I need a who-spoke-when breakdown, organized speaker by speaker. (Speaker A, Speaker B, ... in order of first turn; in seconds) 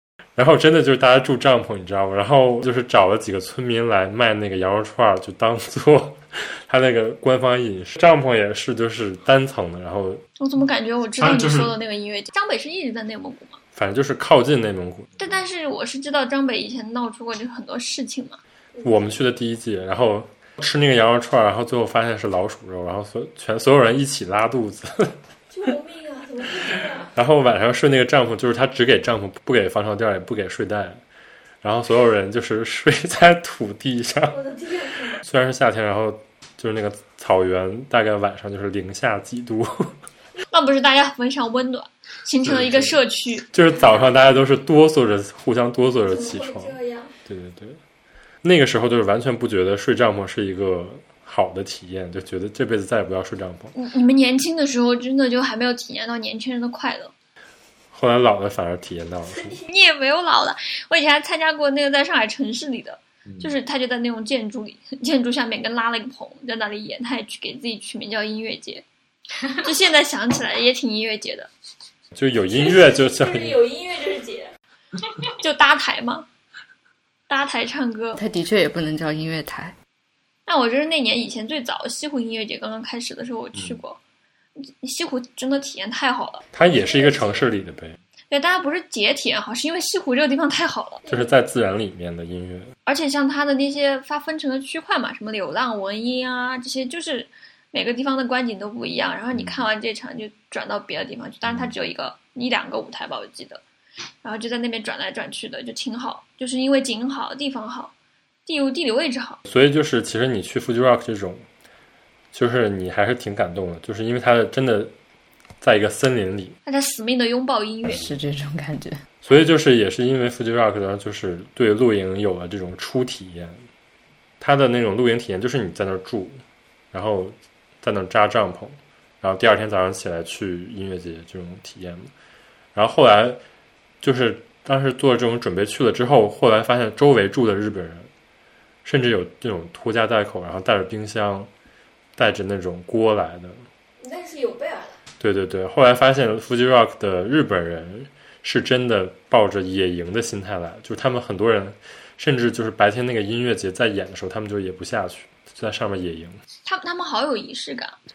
Speaker A: 0.4-10.2, 11.2-11.8, 13.8-15.4, 18.8-25.2, 27.1-31.0, 31.6-34.4, 35.2-40.0, 42.4-43.0, 43.5-47.8, 48.4-53.8, 57.9-59.6, 63.3-63.5, 72.2-73.6, 83.5-83.8, 86.5-88.0, 91.1-92.7, 99.3-99.7, 101.5-101.7, 109.5-111.5, 112.3-114.9, 115.6-116.6, 119.2-123.7, 124.4-126.4, 126.9-132.1, 132.8-133.4, 134.0-138.1, 138.8-141.5, 142.2-143.7, 145.2-156.4
Speaker B: 10.4-13.6, 15.2-18.4, 40.5-43.5, 53.8-57.1, 59.6-68.8, 69.5-71.5, 75.2-76.3, 77.3-78.2, 80.5-84.0, 84.6-86.5, 88.3-91.0, 92.9-103.6, 104.2-107.9, 108.5-109.4, 116.7-118.1, 156.7-157.9
Speaker C: 18.8-19.0, 25.5-27.1, 34.3-35.2, 46.1-47.1, 72.5-74.5, 86.6-87.5, 144.0-145.0
Speaker D: 78.2-79.8, 117.9-119.0